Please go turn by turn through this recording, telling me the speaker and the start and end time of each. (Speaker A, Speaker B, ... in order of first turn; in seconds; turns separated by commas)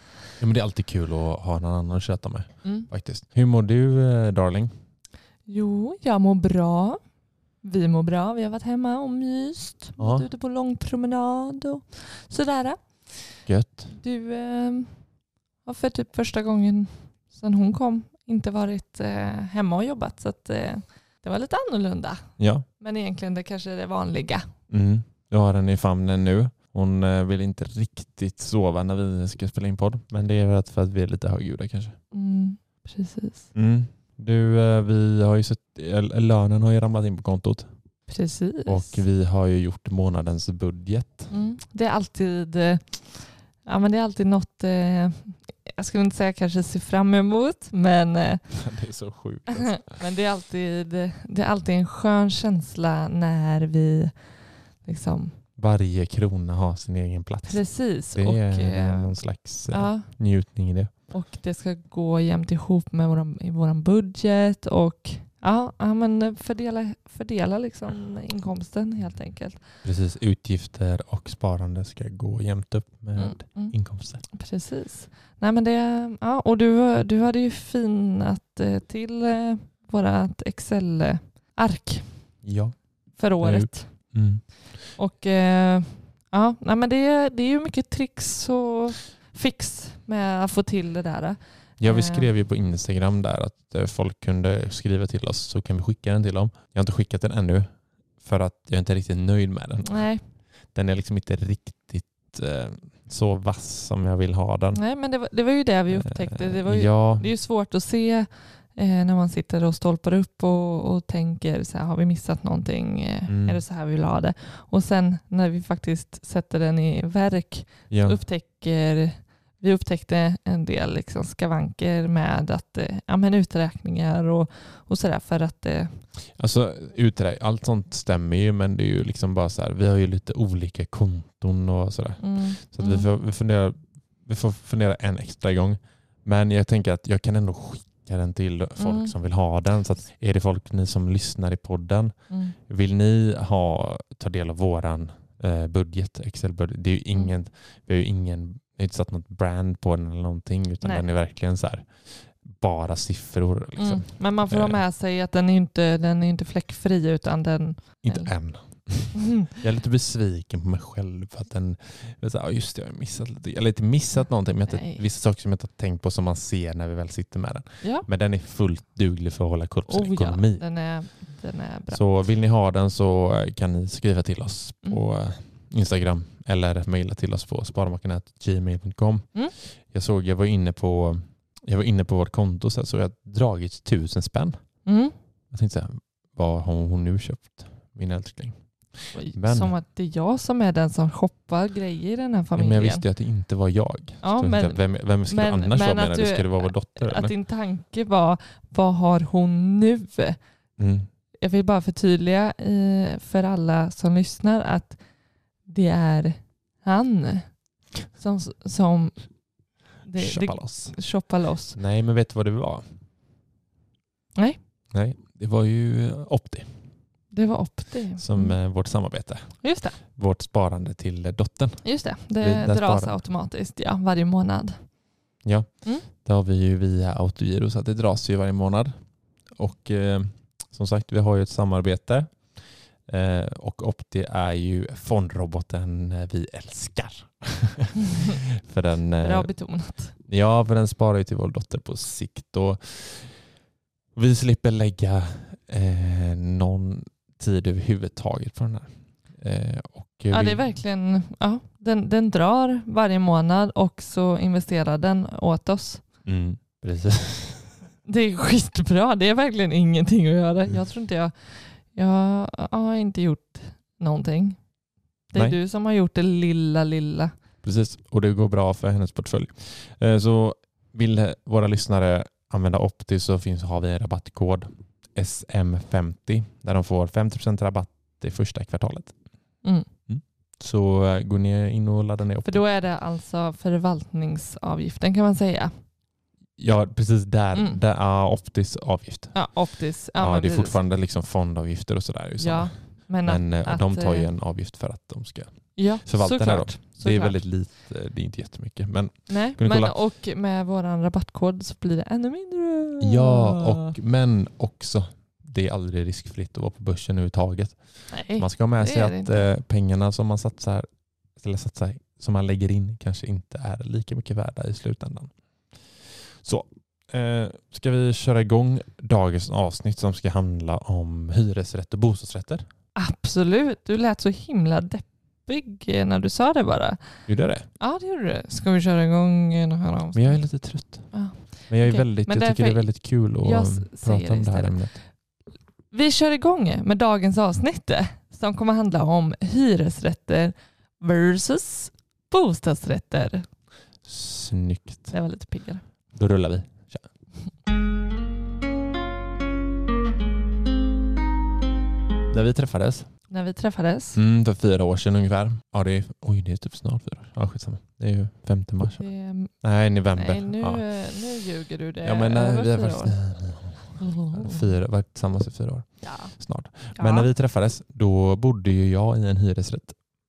Speaker A: 0.4-4.7, Speaker B: 2.6-2.9, Speaker B: 5.5-7.0, Speaker B: 7.6-12.8, Speaker A: 10.0-10.2, Speaker A: 13.4-13.9, Speaker B: 13.9-14.9, Speaker B: 15.6-22.2, Speaker A: 22.4-22.6, Speaker B: 22.8-24.5, Speaker A: 24.7-32.0, Speaker B: 32.1-33.5, Speaker A: 33.5-37.7, Speaker B: 38.1-39.0, Speaker A: 38.6-41.3, Speaker B: 41.3-48.4, Speaker A: 48.5-49.9, Speaker B: 49.5-54.1, Speaker B: 54.8-55.4, Speaker A: 55.6-60.9, Speaker B: 57.4-59.1, Speaker B: 59.7-60.1, Speaker B: 61.1-69.6, Speaker A: 69.8-74.2, Speaker B: 73.2-82.3, Speaker A: 82.4-84.5, Speaker B: 83.2-84.1, Speaker B: 84.9-92.3, Speaker A: 91.8-100.0, Speaker B: 99.8-100.2, Speaker A: 100.7-104.8, Speaker B: 104.7-126.0, Speaker A: 105.9-107.3, Speaker A: 113.3-113.6, Speaker A: 117.9-118.2, Speaker A: 126.3-142.1, Speaker B: 132.2-133.1, Speaker B: 138.8-139.1, Speaker B: 142.3-142.6, Speaker A: 142.7-154.8, Speaker B: 153.8-158.3, Speaker A: 158.0-170.6, Speaker B: 164.7-165.0, Speaker B: 169.9-172.0, Speaker A: 171.9-184.6, Speaker B: 184.8-185.1, Speaker A: 185.5-188.6, Speaker B: 189.1-193.0, Speaker A: 189.3-189.7, Speaker A: 192.6-197.3, Speaker B: 194.2-200.4, Speaker A: 200.8-201.1, Speaker B: 201.4-205.0, Speaker B: 205.7-209.3, Speaker B: 210.0-211.8, Speaker A: 210.2-211.1, Speaker A: 211.7-212.9, Speaker A: 214.9-216.8, Speaker B: 217.3-218.6, Speaker A: 218.2-219.6, Speaker B: 219.6-220.0, Speaker A: 220.1-223.2, Speaker B: 221.8-224.8, Speaker A: 225.4-229.0, Speaker A: 229.5-239.6, Speaker B: 239.2-240.1, Speaker A: 240.1-243.4, Speaker A: 244.1-250.7, Speaker B: 250.3-256.0, Speaker A: 256.2-257.7, Speaker B: 258.0-264.6, Speaker B: 265.3-267.3, Speaker A: 265.3-265.6, Speaker A: 267.6-279.1, Speaker A: 280.1-282.6, Speaker B: 282.4-285.7, Speaker A: 286.6-289.6, Speaker B: 287.5-287.8, Speaker B: 289.3-290.8, Speaker A: 290.1-300.0, Speaker B: 292.4-294.3, Speaker B: 295.8-297.4, Speaker B: 299.3-303.9, Speaker A: 303.0-315.3, Speaker B: 308.1-309.5, Speaker A: 316.4-322.7, Speaker B: 322.9-327.0, Speaker A: 327.3-327.7, Speaker B: 327.8-330.4, Speaker A: 330.1-335.0, Speaker B: 331.1-334.8, Speaker B: 335.9-343.4, Speaker A: 344.0-345.1, Speaker B: 345.1-345.8, Speaker A: 346.1-347.1, Speaker A: 352.3-353.1, Speaker B: 353.3-354.2, Speaker A: 354.1-359.1, Speaker B: 359.0-359.6, Speaker A: 359.6-360.9, Speaker B: 360.1-363.1, Speaker A: 362.0-369.9, Speaker B: 364.0-364.6, Speaker B: 366.0-366.3, Speaker B: 366.9-367.3